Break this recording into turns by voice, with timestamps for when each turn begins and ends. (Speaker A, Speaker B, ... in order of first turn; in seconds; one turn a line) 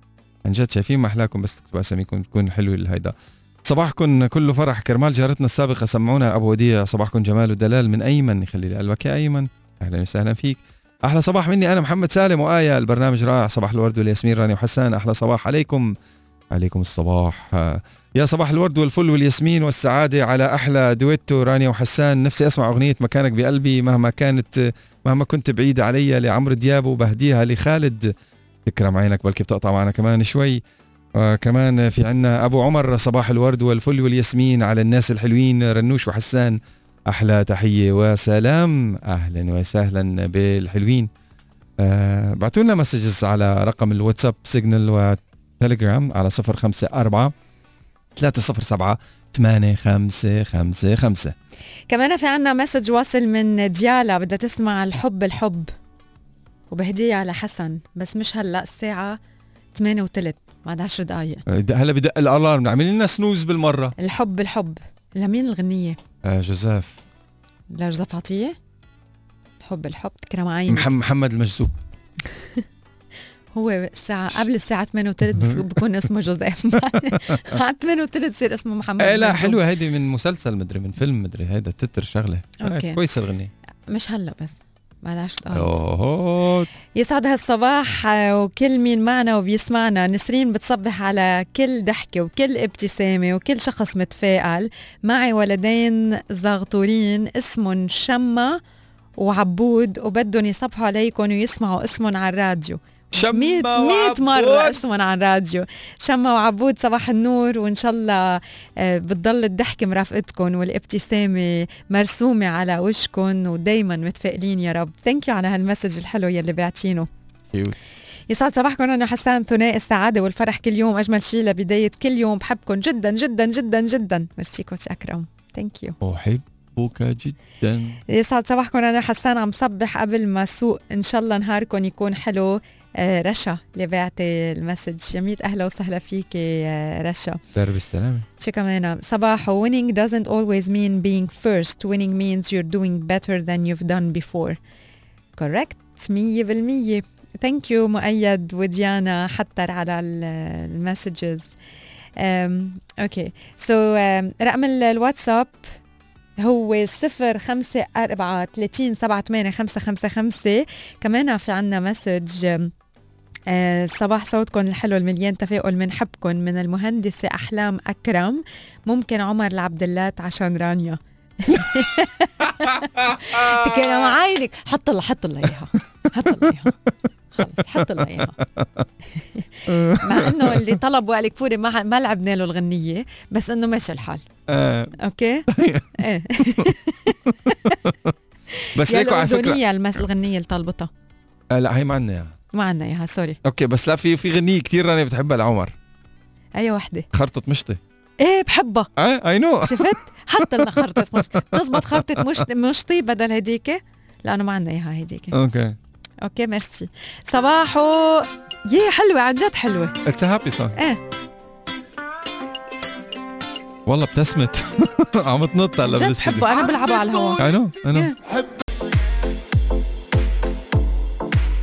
Speaker A: 0.4-3.1
Speaker A: 3.6-15.9
Speaker A: 16.5-28.1
Speaker A: 28.6-30.6
Speaker A: 31.1-36.6
Speaker A: 37.1-41.1
Speaker A: 41.8-47.3
Speaker A: 48.1-51.3
Speaker B: 51.9-55.7
Speaker B: 56.7-59.2
Speaker B: 59.8-61.4
Speaker A: 61.5-64.0
Speaker B: 64.0-66.0
Speaker A: 66.2-67.0
Speaker B: 67.7-68.6
Speaker B: 69.6-70.9
Speaker A: 70.7-71.7
Speaker B: 72.2-72.6
Speaker B: 73.5-79.6
Speaker A: 75.3-75.7
Speaker A: 76.9-77.6
Speaker A: 79.0-83.5
Speaker B: 82.6-83.0
Speaker B: 83.9-85.7
Speaker A: 85.5-86.7
Speaker B: 86.9-98.6
Speaker B: 99.2-117.1
Speaker A: 103.1-104.8
Speaker A: 117.5-117.8
Speaker B: 118.3-126.0
Speaker A: 126.0-128.0
Speaker B: 128.1-137.4
Speaker A: 137.6-138.3
Speaker B: 138.4-144.6
Speaker B: 145.4-151.5
Speaker B: 152.2-155.7
Speaker B: 156.4-162.7
Speaker B: 163.5-176.8
Speaker A: 173.3-173.7
Speaker B: 177.3-178.4
Speaker A: 177.7-178.9
Speaker B: 179.1-184.2
Speaker A: 179.7-180.8
Speaker A: 184.5-185.0
Speaker B: 185.0-187.8
Speaker A: 185.5-186.7
Speaker A: 187.3-188.1
Speaker B: 188.5-190.9
Speaker A: 188.8-189.6
Speaker A: 191.5-192.4
Speaker B: 192.5-193.4
Speaker A: 193.4-195.7
Speaker B: 196.6-197.1
Speaker A: 197.1-197.8
Speaker B: 198.2-198.9
Speaker A: 199.0-202.4
Speaker B: 199.6-205.4
Speaker A: 205.3-205.8
Speaker B: 206.2-210.0
Speaker A: 210.1-210.8
Speaker B: 210.8-211.0
Speaker A: 213.9-216.6
Speaker B: 215.8-218.2
Speaker A: 217.4-218.1